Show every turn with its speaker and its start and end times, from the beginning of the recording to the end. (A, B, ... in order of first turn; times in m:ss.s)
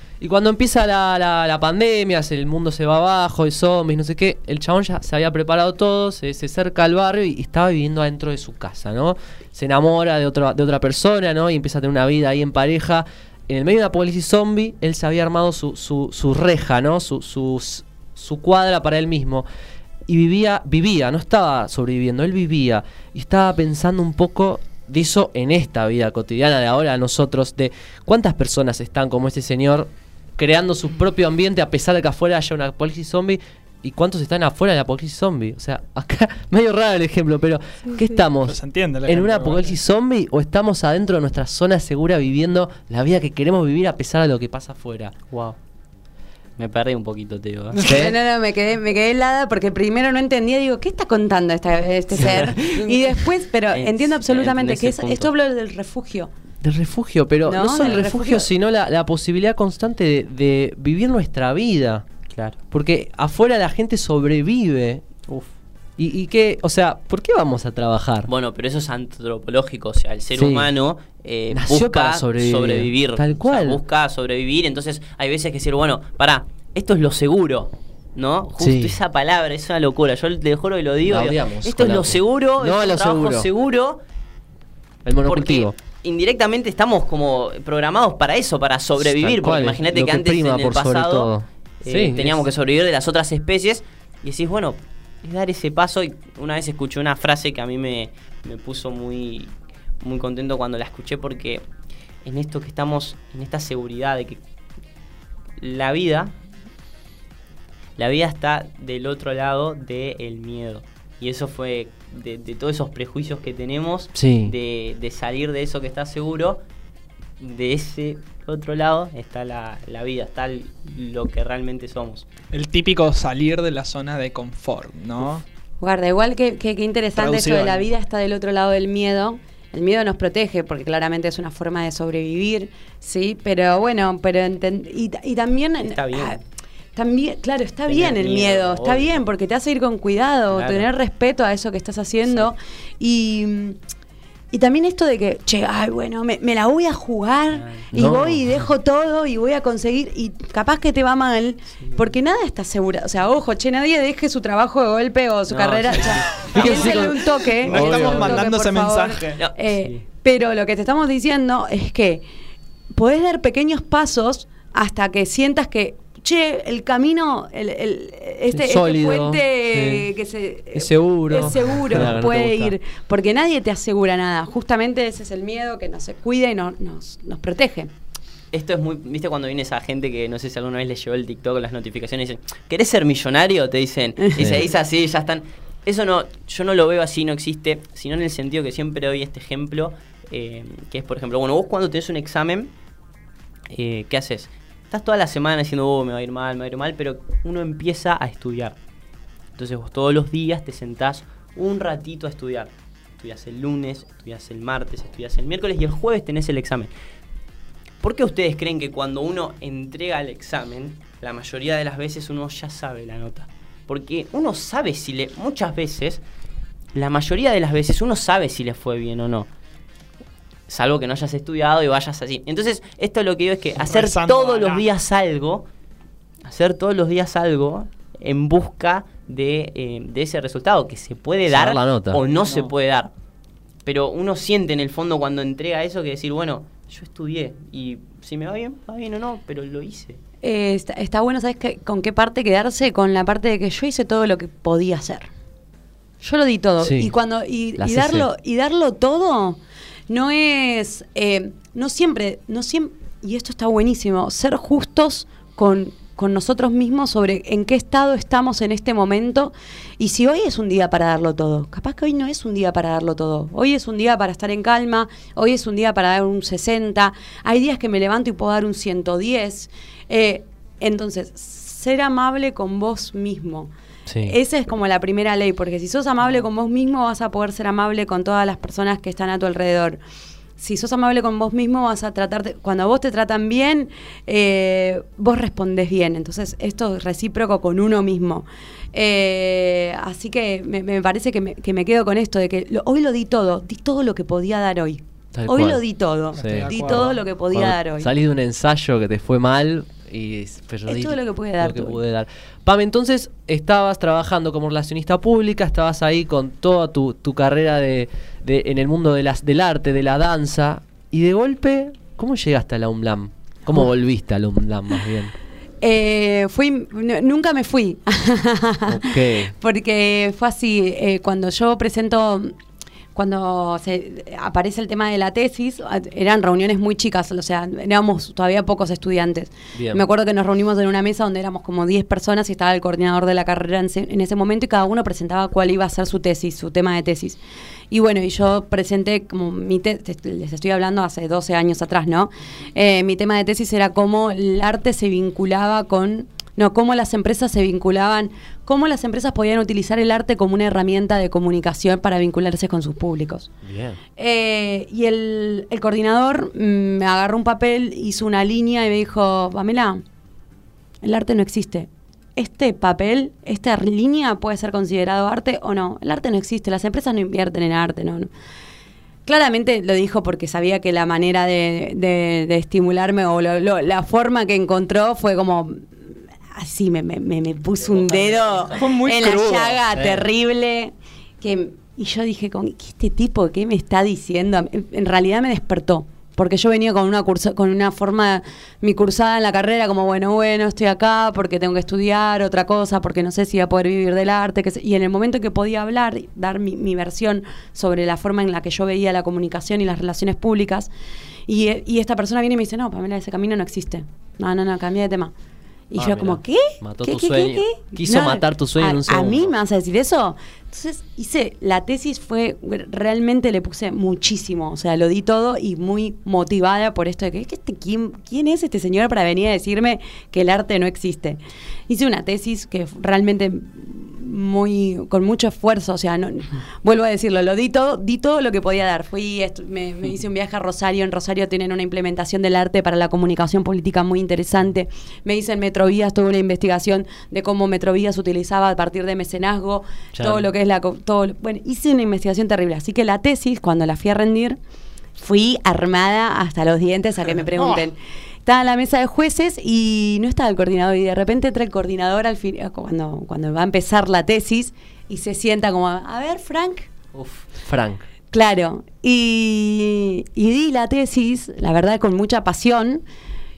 0:00.2-0:19.4 A
0:20.1-0:45.1 A
0:38.4-0:39.7 B
0:45.3-0:45.6 C
0:46.6-0:47.8 C
0:47.7-0:48.0 B
0:47.8-0:48.1 A
0:47.8-0:56.3 D
0:52.2-0:52.9 C
0:53.7-0:55.3 C
0:56.6-1:02.0 A
0:57.4-0:58.5 D
1:02.3-1:02.6 C
1:02.7-1:05.1 A
1:06.0-1:08.3 A
1:08.3-1:24.0 C
1:10.3-1:10.7 A
1:11.5-1:13.8 A
1:18.6-1:19.0 A
1:21.0-1:23.5 A
1:25.0-1:25.7 A
1:25.2-1:31.3 C
1:29.0-1:32.4 A
1:31.8-1:41.6 C
1:42.2-1:44.4 C
1:45.6-1:46.3 C
1:48.0-1:56.6 C
1:54.1-1:54.5 A
1:57.4-2:02.2 C
2:02.5-2:05.4 B
2:05.8-2:16.4 D
2:07.2-2:07.9 B
2:15.8-2:16.4 C
2:17.0-2:23.8 D
2:17.9-2:19.2 C
2:20.5-2:20.9 C
2:24.5-2:42.2 D
2:27.5-2:27.8 C
2:27.9-2:28.7 A
2:35.5-2:36.9 C
2:36.3-2:36.7 B
2:36.5-2:38.4 A
2:37.6-2:39.4 B
2:39.4-2:40.0 C
2:42.9-2:57.9 D
2:48.5-2:50.1 A
2:50.7-2:52.7 A
2:58.5-3:12.7 C
3:13.7-3:18.8 C
3:19.6-3:26.9 C
3:28.0-3:36.2 C
3:36.9-3:39.5 C
3:40.7-3:45.7 C
3:43.8-3:44.8 B
3:46.4-3:53.1 C
3:51.5-3:52.2 A
3:52.4-3:52.7 B
3:53.8-4:00.2 C
4:00.4-4:05.3 D
4:06.2-4:33.7 D
4:06.8-4:07.1 A
4:07.8-4:08.3 A
4:34.1-4:34.3 A
4:34.2-4:40.0 D
4:40.6-4:58.1 D
4:55.3-4:55.8 A
4:56.3-4:57.2 B
4:56.4-5:15.3 A
5:00.9-5:02.0 D
5:15.8-5:22.5 D
5:18.9-5:19.5 A
5:23.1-5:37.4 D
5:29.7-5:30.0 A
5:37.9-5:53.5 D
5:53.6-5:54.0 A
5:54.2-6:00.0 D
6:01.0-6:08.3 D
6:09.3-6:15.9 D
6:16.5-6:40.9 D
6:17.8-6:18.8 C
6:18.7-6:19.8 B
6:19.9-6:20.2 A
6:41.5-6:45.3 D
6:45.9-7:24.6 D
6:46.0-6:49.5 A
7:20.1-7:20.4 A
7:25.2-7:36.9 D
7:37.1-7:37.4 C
7:37.6-7:38.0 A
7:38.3-7:43.0 D